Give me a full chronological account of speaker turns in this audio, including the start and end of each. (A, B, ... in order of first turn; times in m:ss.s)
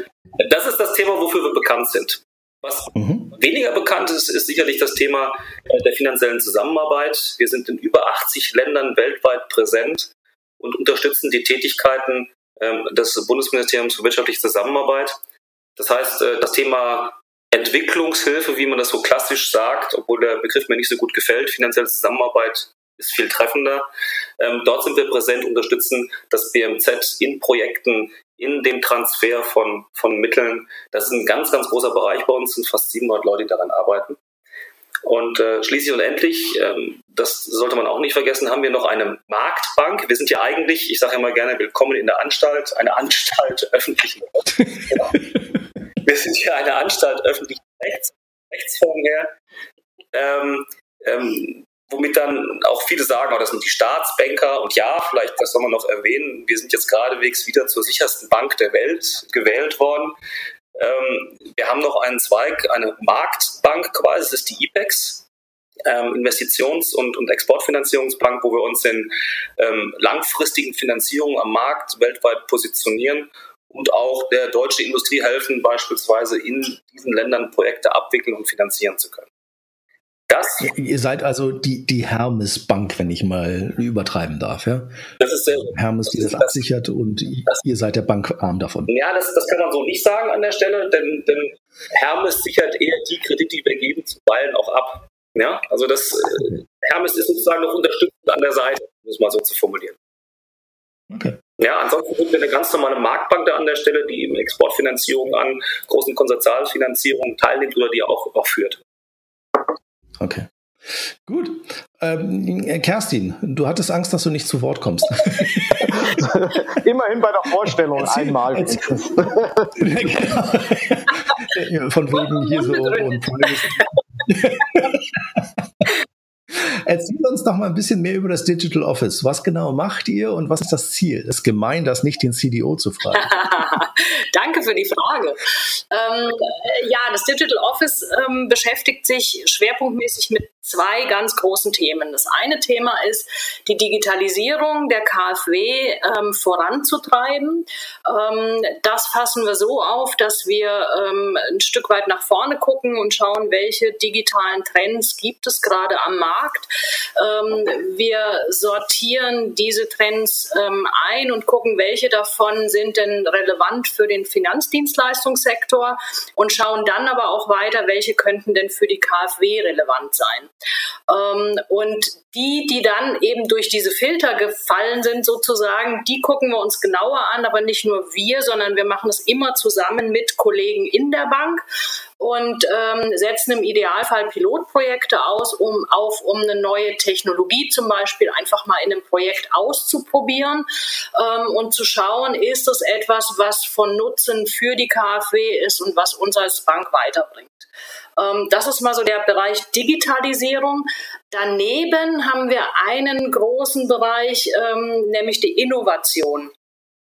0:00.4-0:15.2 A
0:03.0-0:03.3 B
0:15.8-0:23.9 A
0:24.4-0:34.2 A
0:35.0-0:45.2 A
0:46.0-0:49.3 A
0:50.1-1:00.2 A
1:00.8-1:05.2 A
1:05.9-1:19.3 A
1:20.3-1:20.7 A
1:20.6-1:25.1 B
1:25.2-1:26.6 A
1:25.7-1:28.9 B
1:28.9-1:40.0 A
1:41.1-1:41.4 B
1:41.6-1:48.8 A
1:50.2-1:56.1 B
1:56.0-1:59.7 C
1:58.0-1:59.1 B
1:59.8-2:05.9 B
2:02.4-2:03.3 D
2:06.5-2:13.3 B
2:13.2-2:50.5 D
2:51.1-3:01.6 D
3:02.2-3:17.7 D
3:18.2-3:26.5 D